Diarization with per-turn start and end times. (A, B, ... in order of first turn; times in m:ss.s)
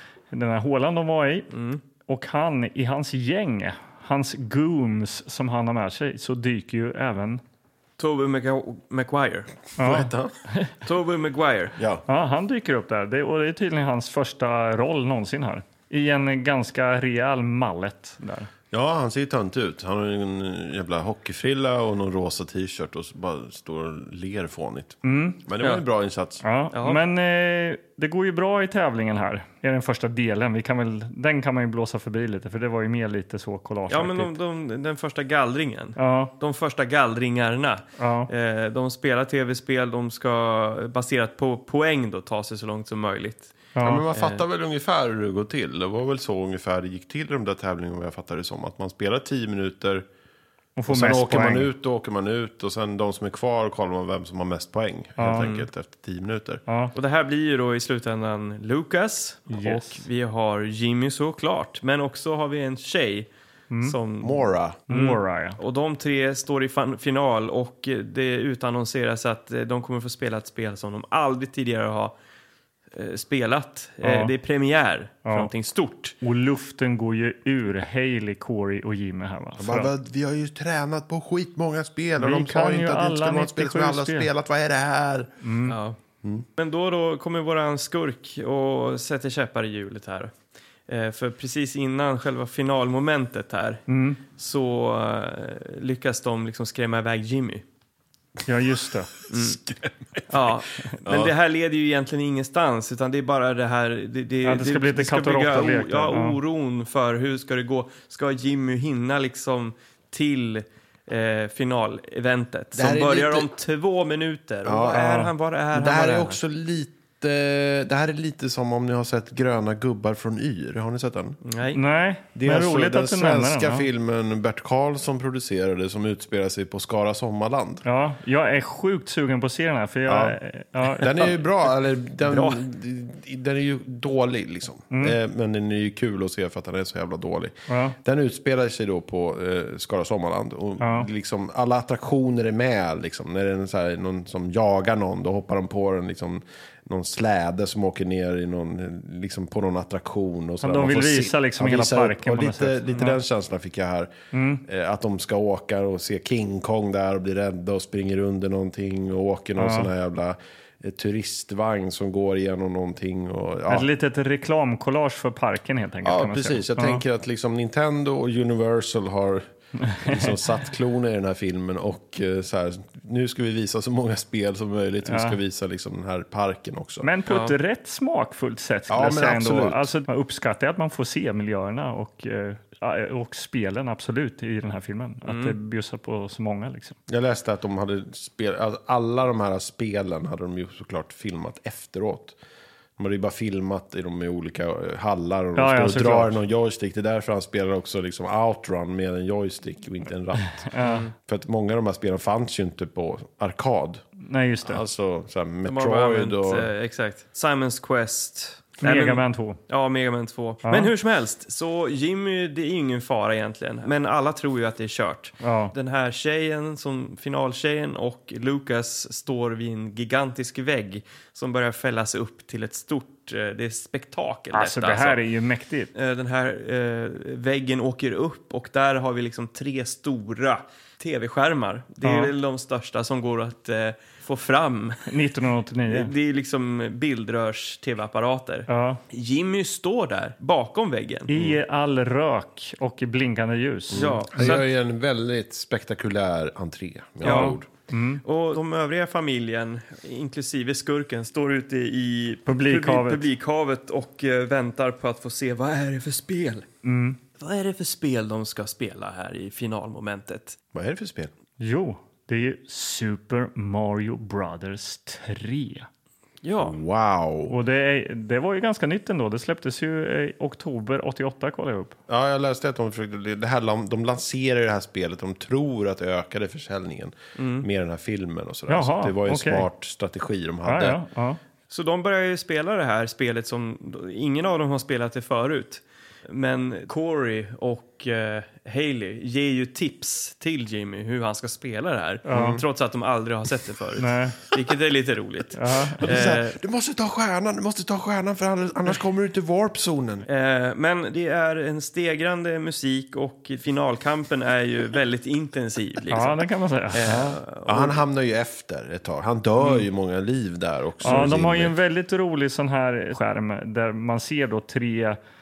0:00.3-0:01.5 A
0:01.5-0:01.8 B
0:02.1-0:07.4 A
0:08.0-0:09.5 B
0:09.8-0:10.7 A
0:09.8-0:10.3 C
0:10.8-0:11.8 B
0:11.8-0:12.0 C
0:12.1-0:18.5 A
0:18.7-0:26.4 C
0:25.0-0:25.4 A
0:26.4-0:34.3 A
0:26.7-0:27.0 B
0:33.9-0:44.4 B
0:36.0-0:36.3 A
0:38.0-0:38.3 A
0:43.7-0:44.0 A
0:43.8-0:50.0 C
0:50.8-0:51.7 A
0:50.9-0:56.6 C
0:55.2-0:55.5 A
0:55.4-0:55.6 B
0:56.7-0:56.9 A
0:56.9-1:03.3 B
0:59.5-1:00.0 A
1:03.7-1:04.0 A
1:03.8-1:12.1 B
1:04.2-1:04.8 C
1:04.9-1:05.6 A
1:12.9-1:16.2 B
1:14.0-1:14.3 A
1:15.2-1:15.5 A
1:16.2-1:19.9 A
1:19.6-1:25.3 C
1:22.2-1:24.3 A
1:25.4-1:25.8 A
1:25.7-1:26.0 B
1:26.6-1:30.3 B
1:30.9-1:33.8 B
1:33.9-1:34.2 A
1:34.3-1:37.6 B
1:38.4-1:39.1 A
1:39.3-1:39.6 B
1:39.4-1:40.3 C
1:40.3-1:56.4 B
1:41.0-1:41.3 C
1:44.4-1:46.4 A
1:52.7-1:53.5 C
1:54.6-2:01.4 C
2:01.4-2:01.8 B
2:01.7-2:03.9 A
2:02.3-2:07.8 C
2:07.8-2:11.3 A
2:10.1-2:10.4 C
2:10.9-2:34.1 C
2:12.2-2:12.6 B
2:14.9-2:15.2 A
2:17.7-2:18.0 A
2:20.8-2:21.1 A
2:30.6-2:33.2 A
2:34.3-2:34.6 A
2:34.6-2:43.9 C
2:39.6-2:39.9 A
2:43.7-2:47.0 A
2:46.0-2:49.4 C
2:49.9-2:50.4 A
2:50.0-2:57.1 C
2:55.1-2:55.4 A
2:57.0-3:07.0 A
2:57.3-2:57.6 B
2:58.9-2:59.8 C
3:05.2-3:05.6 B
3:07.1-3:12.4 C
3:13.0-3:20.7 C
3:15.6-3:16.4 A
3:20.7-3:21.1 A
3:20.8-3:21.1 B
3:21.3-3:24.0 C
3:24.2-3:24.8 A
3:24.6-3:26.7 C
3:25.6-3:45.2 B
3:28.8-3:29.6 A
3:35.4-3:35.7 A
3:44.5-3:45.9 A
3:45.9-3:55.0 B
3:52.0-3:52.3 A
3:55.1-3:56.1 A
3:55.9-4:01.3 B
3:58.7-3:59.0 A
4:01.3-4:04.6 A
4:03.9-4:07.6 C
4:03.9-4:04.6 B
4:07.2-4:08.2 A
4:07.2-4:07.6 B
4:08.2-4:16.6 B
4:12.5-4:13.3 A
4:16.8-4:17.2 A
4:17.4-4:20.6 B
4:20.7-4:21.3 C
4:21.6-4:25.9 A
4:26.4-4:26.8 B
4:26.6-4:27.6 C
4:27.5-4:32.0 A
4:32.1-4:41.0 C
4:37.4-4:37.6 B
4:38.7-4:39.7 A
4:40.6-4:41.4 A
4:41.7-4:56.6 B
4:52.3-4:52.6 A
4:52.3-4:52.6 C
4:54.0-4:54.4 A
4:55.5-4:56.1 A
4:56.0-5:00.2 C
5:00.3-5:08.0 B
5:06.1-5:07.4 A
5:07.6-5:11.7 C
5:11.0-5:15.2 A